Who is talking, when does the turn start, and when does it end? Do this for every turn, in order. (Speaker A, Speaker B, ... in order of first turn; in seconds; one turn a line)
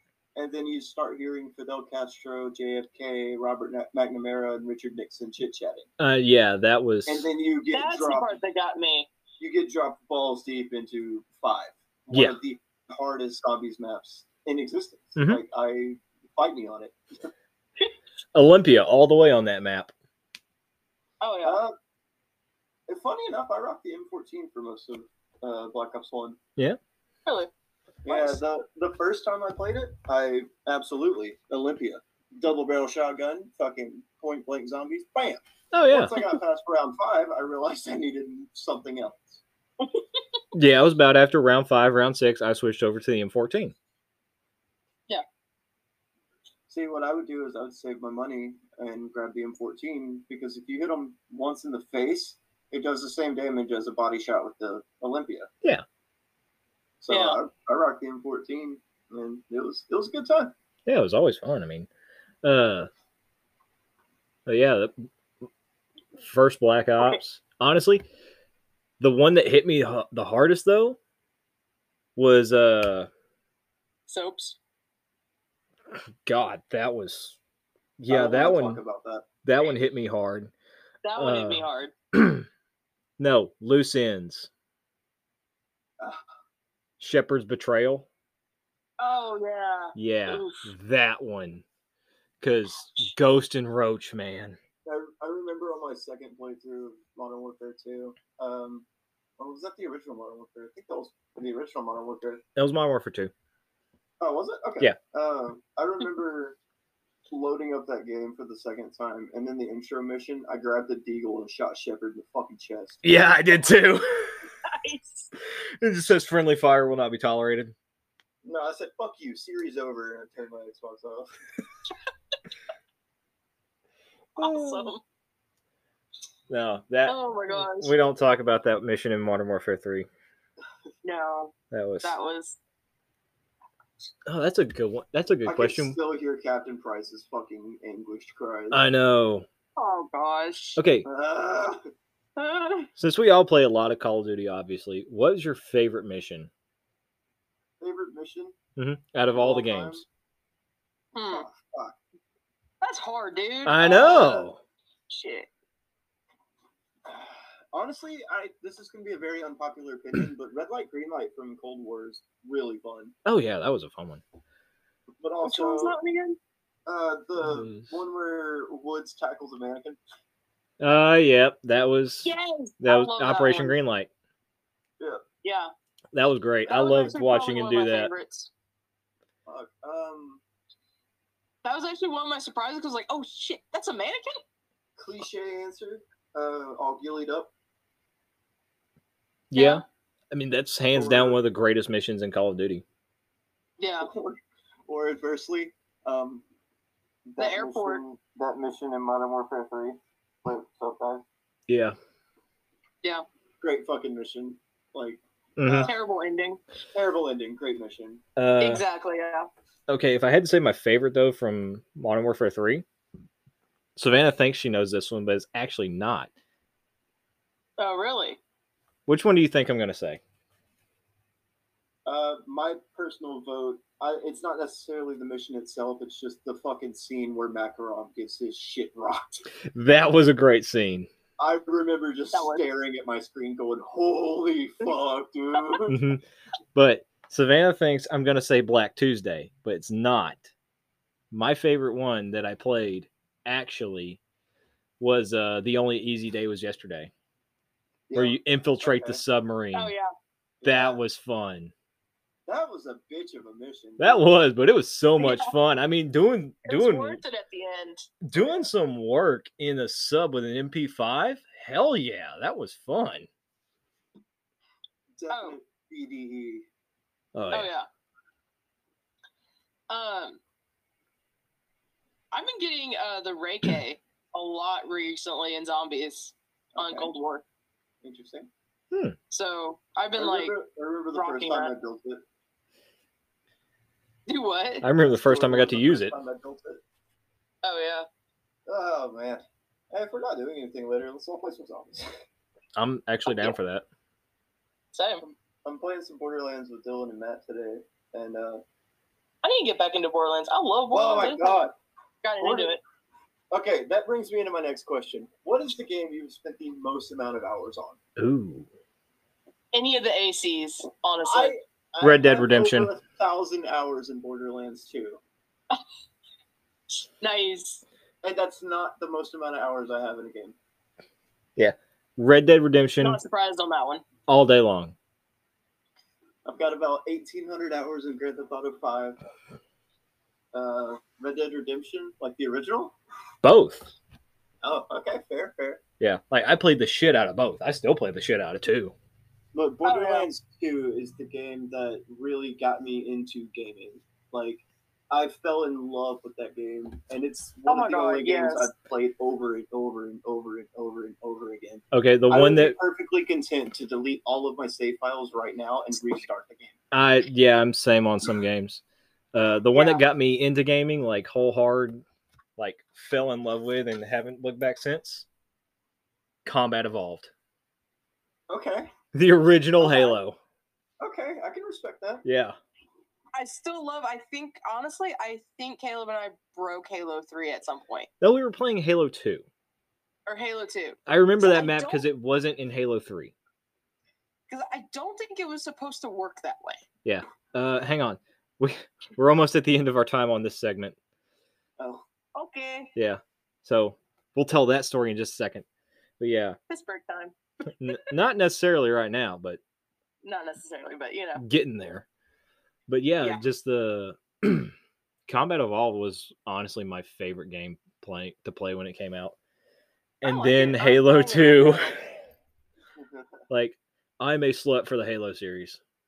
Speaker A: 0.3-5.9
Speaker B: 6.0-7.3
Speaker A: 7.1-8.4
Speaker C: 7.7-9.1
Speaker A: 9.4-17.3
Speaker B: 12.1-12.4
Speaker B: 15.2-15.4
Speaker B: 18.4-19.9
Speaker C: 21.2-21.6
Speaker A: 21.4-21.8
Speaker A: 22.9-26.4
Speaker A: 28.1-39.4
Speaker B: 35.7-36.2
Speaker B: 40.5-43.7
Speaker A: 46.7-55.5
Speaker A: 57.0-60.5
Speaker C: 57.1-57.4
Speaker B: 60.9-61.9
Speaker B: 62.4-62.9
Speaker B: 64.5-64.9
Speaker B: 66.2-68.0
Speaker B: 69.0-71.0
Speaker B: 72.2-73.1
Speaker C: 74.1-74.6
Speaker B: 76.2-77.4
Speaker B: 78.0-78.8
Speaker A: 78.1-79.3
Speaker B: 79.4-80.5
Speaker C: 81.0-81.9
Speaker B: 81.2-82.5
Speaker B: 83.2-84.5
Speaker B: 87.0-88.1
Speaker C: 89.0-90.7
Speaker B: 90.0-91.7
Speaker B: 92.4-94.6
Speaker A: 94.8-98.9
Speaker A: 99.4-102.4
Speaker B: 102.6-103.3
Speaker A: 104.2-106.6
Speaker A: 107.3-113.2
Speaker B: 113.0-114.5
Speaker C: 114.6-115.3
Speaker B: 115.8-117.8
Speaker A: 118.4-121.3
Speaker B: 124.4-124.9
Speaker C: 124.4-125.0
Speaker B: 126.5-130.1
Speaker C: 127.1-127.9
Speaker C: 131.0-132.6
Speaker B: 131.7-132.2
Speaker B: 134.3-136.0
Speaker A: 135.5-138.8
Speaker B: 138.7-139.5
Speaker C: 139.8-140.8
Speaker B: 140.8-141.1
Speaker A: 141.1-141.8
Speaker C: 142.4-142.9
Speaker B: 143.0-146.5
Speaker A: 147.8-148.6
Speaker B: 148.8-150.1
Speaker A: 149.3-150.1
Speaker C: 151.2-151.5
Speaker A: 151.2-152.0
Speaker C: 152.8-154.4
Speaker B: 153.7-154.6
Speaker A: 154.0-154.5
Speaker C: 155.1-155.5
Speaker A: 157.1-163.1
Speaker B: 163.3-164.2
Speaker A: 165.2-166.0
Speaker C: 165.4-166.4
Speaker A: 166.9-170.0
Speaker B: 167.4-168.0
Speaker B: 170.8-174.1
Speaker C: 172.2-173.8
Speaker A: 175.0-175.2
Speaker C: 175.4-175.7
Speaker B: 176.1-178.1
Speaker C: 176.7-178.5
Speaker A: 179.5-180.4
Speaker C: 181.6-184.4
Speaker A: 185.0-187.5
Speaker B: 189.5-192.8
Speaker C: 189.6-189.8
Speaker A: 190.9-191.4
Speaker C: 193.8-194.1
Speaker A: 194.0-196.4
Speaker A: 197.3-201.2
Speaker C: 197.4-198.0
Speaker B: 201.7-202.0
Speaker A: 203.6-205.9
Speaker B: 205.6-205.9
Speaker C: 205.8-206.6
Speaker A: 206.9-208.2
Speaker B: 208.4-208.8
Speaker C: 208.6-209.5
Speaker B: 209.9-212.8
Speaker B: 214.0-216.3
Speaker C: 217.8-218.4
Speaker B: 219.1-220.2
Speaker A: 222.1-229.4
Speaker B: 229.7-231.1
Speaker A: 231.4-236.0
Speaker C: 232.3-232.7
Speaker B: 235.9-236.2
Speaker B: 236.8-240.5
Speaker B: 241.3-244.2
Speaker B: 245.0-247.1
Speaker A: 248.1-249.2
Speaker B: 248.1-249.9
Speaker C: 249.7-250.1
Speaker A: 250.6-251.0
Speaker B: 250.6-251.7
Speaker A: 252.5-254.2
Speaker B: 254.0-257.2
Speaker C: 255.2-255.5
Speaker C: 256.7-258.1
Speaker B: 258.2-263.3
Speaker A: 258.3-258.7
Speaker A: 265.2-266.7
Speaker C: 265.3-265.6
Speaker B: 267.4-267.7
Speaker C: 267.5-267.9
Speaker C: 269.9-270.4
Speaker C: 272.3-277.4
Speaker A: 276.8-277.1
Speaker A: 278.0-278.5
Speaker B: 278.9-279.2
Speaker C: 279.3-280.6
Speaker A: 280.2-282.2
Speaker C: 281.1-281.7
Speaker C: 284.3-284.9
Speaker B: 284.8-286.2
Speaker A: 285.0-286.8
Speaker C: 287.6-288.1
Speaker A: 288.7-292.1
Speaker B: 292.8-293.9
Speaker C: 294.9-295.2
Speaker A: 295.2-298.6
Speaker C: 299.4-301.7
Speaker A: 300.9-301.7
Speaker C: 302.2-302.8
Speaker A: 302.4-302.8
Speaker A: 303.5-308.0
Speaker B: 308.2-308.7
Speaker C: 309.7-311.5
Speaker A: 311.2-315.2
Speaker B: 312.0-312.9
Speaker C: 316.9-317.8
Speaker A: 318.2-320.6
Speaker B: 321.6-323.2
Speaker C: 323.0-324.0
Speaker B: 324.3-324.9
Speaker A: 326.4-329.2
Speaker A: 330.5-333.0
Speaker B: 333.4-333.9
Speaker A: 334.6-335.8
Speaker B: 336.0-338.9
Speaker A: 339.5-356.8
Speaker C: 339.8-340.3
Speaker C: 347.7-348.7
Speaker B: 351.9-352.8
Speaker B: 356.9-358.8
Speaker B: 359.3-362.0
Speaker C: 359.7-360.0
Speaker B: 362.6-365.3
Speaker B: 366.4-367.3
Speaker A: 368.5-368.9
Speaker B: 369.1-370.4
Speaker C: 369.8-370.2
Speaker A: 371.0-372.2
Speaker B: 372.2-372.6
Speaker C: 373.3-378.1
Speaker B: 378.2-379.4
Speaker C: 380.3-382.1
Speaker B: 381.1-383.3
Speaker C: 384.5-386.8
Speaker B: 387.1-391.0
Speaker A: 391.8-392.1
Speaker C: 392.4-392.9
Speaker B: 393.0-395.7
Speaker B: 396.2-396.6
Speaker C: 396.7-397.3
Speaker B: 397.7-399.6
Speaker C: 400.2-401.4
Speaker B: 401.4-402.1
Speaker B: 402.9-404.7
Speaker B: 405.3-409.4
Speaker B: 410.2-412.1
Speaker C: 410.2-412.0
Speaker A: 413.0-413.3
Speaker B: 413.5-415.8